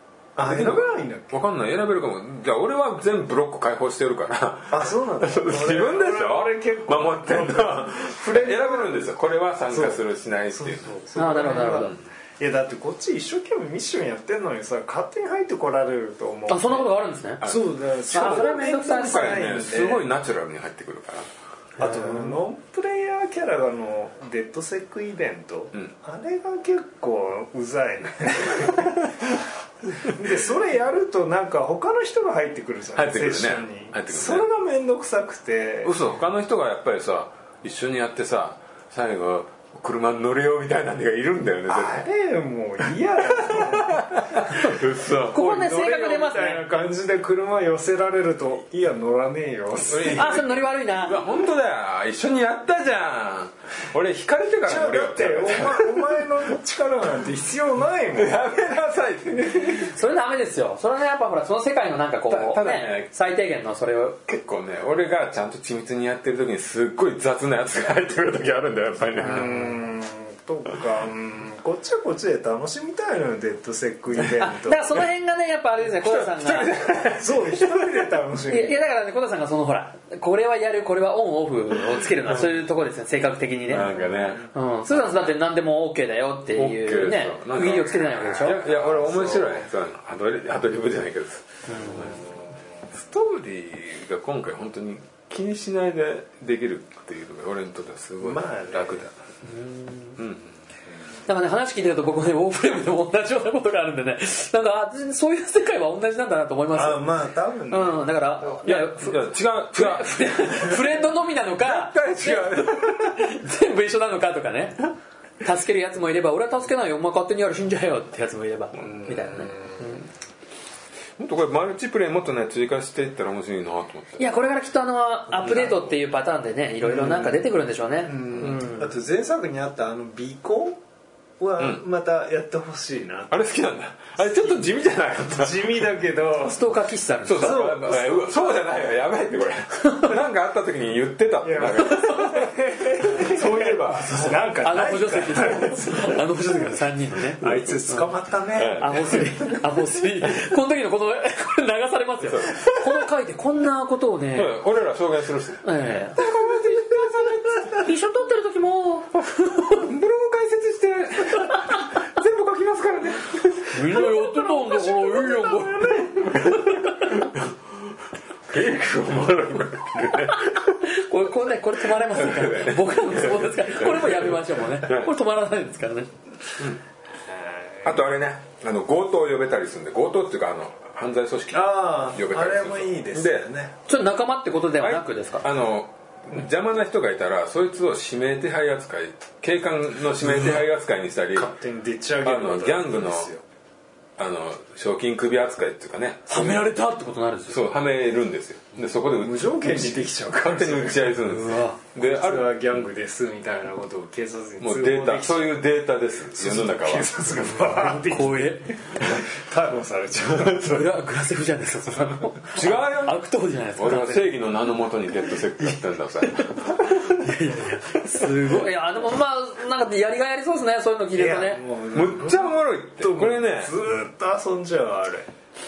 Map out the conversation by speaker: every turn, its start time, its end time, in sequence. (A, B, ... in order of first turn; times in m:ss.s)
0:00.4-0:01.4 A
0:00.4-0:11.0 B
0:04.7-0:09.1 A
0:09.7-0:16.9 A
0:11.2-0:11.9 C
0:16.5-0:17.5 C
0:17.4-0:17.7 B
0:17.4-0:20.0 A
0:18.1-0:19.4 C
0:18.9-0:21.3 B
0:21.8-0:22.4 C
0:21.8-0:29.3 A
0:30.0-0:36.0 A
0:32.9-0:34.5 B
0:35.8-0:42.0 B
0:41.7-0:44.7 A
0:43.2-0:45.4 B
0:45.2-0:50.3 A
0:45.3-0:46.7 C
0:49.9-0:56.3 B
0:50.0-0:51.2 C
0:54.6-0:58.6 A
0:58.1-0:59.9 B
0:59.8-1:04.2 C
1:02.3-1:03.1 B
1:04.3-1:09.5 B
1:09.2-1:09.7 C
1:09.2-1:15.0 A
1:14.4-1:16.8 C
1:16.0-1:18.0 B
1:17.1-1:18.8 A
1:18.5-1:23.9 C
1:22.0-1:22.6 B
1:23.7-1:25.3 B
1:23.8-1:24.2 A
1:24.5-1:28.6 C
1:26.5-1:32.3 B
1:28.6-1:29.7 A
1:31.7-1:32.2 C
1:31.9-1:32.4 A
1:32.9-1:39.2 B
1:38.2-1:39.0 A
1:39.4-1:40.2 C
1:40.2-1:40.5 B
1:41.3-1:47.1 C
1:46.7-1:48.0 A
1:47.7-1:54.9 C
1:48.6-1:50.9 B
1:51.6-1:53.3 B
1:55.4-2:00.0 C
1:58.8-1:59.1 B
1:59.0-1:59.8 A
2:01.2-2:04.2 B
2:04.2-2:08.9 C
2:06.9-2:07.4 A
2:08.0-2:10.8 A
2:08.3-2:08.6 B
2:11.4-2:13.5 A
2:11.6-2:11.8 B
2:13.3-2:15.9 B
2:14.2-2:14.6 A
2:15.2-2:16.7 A
2:16.5-2:17.7 C
2:17.2-2:24.5 B
2:17.3-2:18.6 A
2:21.4-2:26.8 A
2:24.1-2:28.1 C
2:27.3-2:29.6 A
2:27.4-2:27.8 B
2:28.5-2:29.3 B
2:28.8-2:34.5 C
2:32.2-2:33.0 B
2:34.3-2:37.9 B
2:35.6-2:36.3 C
2:37.6-2:39.8 C
2:39.1-2:44.1 B
2:43.7-2:47.3 C
2:44.5-2:46.5 A
2:46.2-2:47.9 B
2:48.5-2:50.8 B
2:50.3-2:56.1 C
2:52.0-2:55.1 B
2:57.3-2:58.0 A
2:57.8-3:03.5 B
3:01.5-3:03.7 A
3:03.9-3:05.5 C
3:04.8-3:11.5 B
3:10.3-3:10.6 A
3:11.3-3:13.4 A
3:12.2-3:13.3 B
3:14.2-3:16.7 B
3:16.3-3:17.6 C
3:17.5-3:22.8 B
3:19.1-3:21.2 A
3:21.2-3:21.8 C
3:21.9-3:25.6 A
3:24.6-3:27.1 B
3:26.3-3:30.8 A
3:27.7-3:28.8 C
3:30.4-3:30.8 B
3:30.6-3:34.3 C
3:32.5-3:33.2 B
3:33.8-3:37.3 B
3:35.6-3:41.6 C
3:38.1-3:38.6 B
3:41.1-3:45.3 A
3:41.9-3:43.7 B